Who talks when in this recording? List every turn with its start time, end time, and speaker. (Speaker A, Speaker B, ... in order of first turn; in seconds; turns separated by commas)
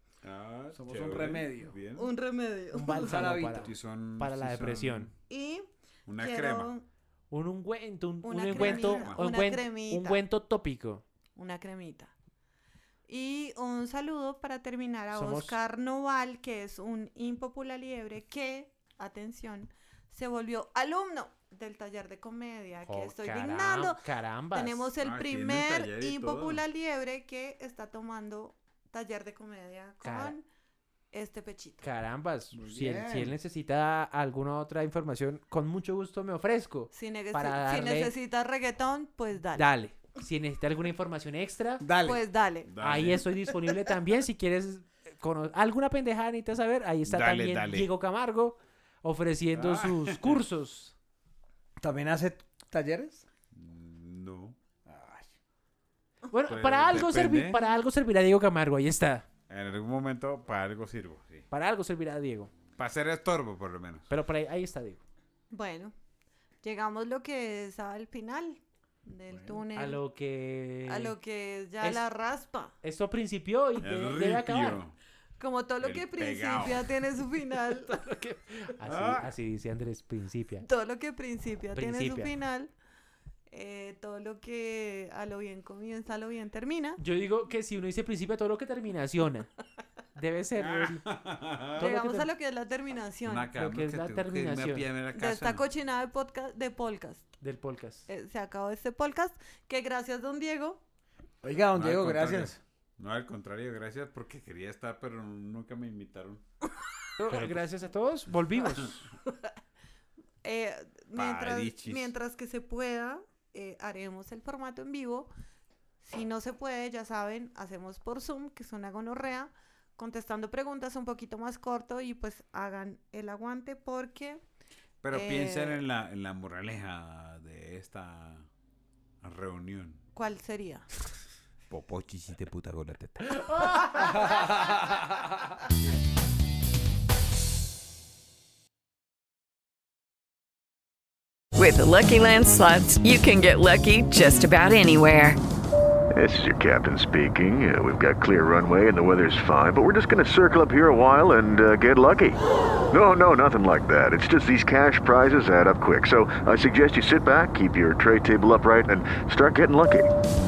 Speaker A: 0.2-2.1, Speaker B: 0.7-1.7, Speaker C: 2.0-3.2, Speaker D: 2.7-5.1, Speaker B: 3.0-3.7, Speaker A: 3.5-5.1, Speaker C: 5.3-6.8, Speaker A: 6.1-6.7, Speaker D: 7.3-11.0, Speaker C: 8.2-10.2, Speaker A: 8.5-9.2, Speaker C: 11.4-12.1, Speaker C: 13.1-24.0, Speaker D: 15.1-15.6, Speaker D: 22.9-24.9, Speaker C: 24.5-30.4, Speaker A: 25.0-26.6, Speaker D: 30.0-30.4, Speaker C: 31.1-31.8, Speaker D: 31.8-38.1, Speaker B: 32.5-33.4, Speaker C: 36.9-39.7, Speaker D: 39.5-41.9, Speaker B: 41.8-42.2, Speaker C: 42.0-42.7, Speaker A: 42.7-43.2, Speaker D: 42.8-50.9, Speaker A: 47.1-47.9, Speaker A: 49.6-50.4, Speaker B: 51.8-53.2, Speaker A: 53.5-54.6, Speaker B: 54.9-55.3, Speaker D: 56.3-59.3, Speaker A: 56.5-57.6, Speaker A: 59.5-61.5, Speaker D: 61.5-62.5, Speaker A: 62.8-64.1, Speaker D: 64.1-65.0, Speaker C: 65.5-65.9, Speaker C: 66.6-70.0, Speaker B: 69.3-69.6, Speaker D: 69.8-71.2, Speaker C: 70.9-72.7, Speaker D: 72.8-74.8, Speaker A: 73.8-75.0, Speaker C: 75.4-78.0, Speaker A: 75.8-76.9, Speaker D: 77.9-80.7, Speaker A: 78.8-79.3, Speaker C: 80.7-82.7, Speaker D: 81.7-82.3, Speaker C: 83.5-87.0, Speaker D: 87.0-89.5, Speaker D: 90.2-91.1, Speaker A: 90.6-91.8, Speaker D: 91.8-92.3, Speaker C: 91.8-93.5, Speaker A: 93.2-95.7, Speaker D: 93.5-94.9, Speaker C: 95.1-97.3, Speaker D: 97.4-98.1, Speaker C: 98.1-100.8, Speaker B: 101.4-102.6, Speaker A: 101.8-106.4, Speaker D: 107.2-109.1, Speaker A: 107.3-107.6, Speaker C: 110.4-115.3, Speaker A: 111.2-112.1, Speaker C: 116.0-124.4, Speaker A: 125.0-128.5, Speaker C: 125.1-125.8, Speaker A: 129.2-130.0, Speaker C: 130.2-130.9, Speaker A: 131.7-133.4, Speaker D: 133.5-134.2, Speaker E: 141.6-145.4, Speaker F: 146.1-160.1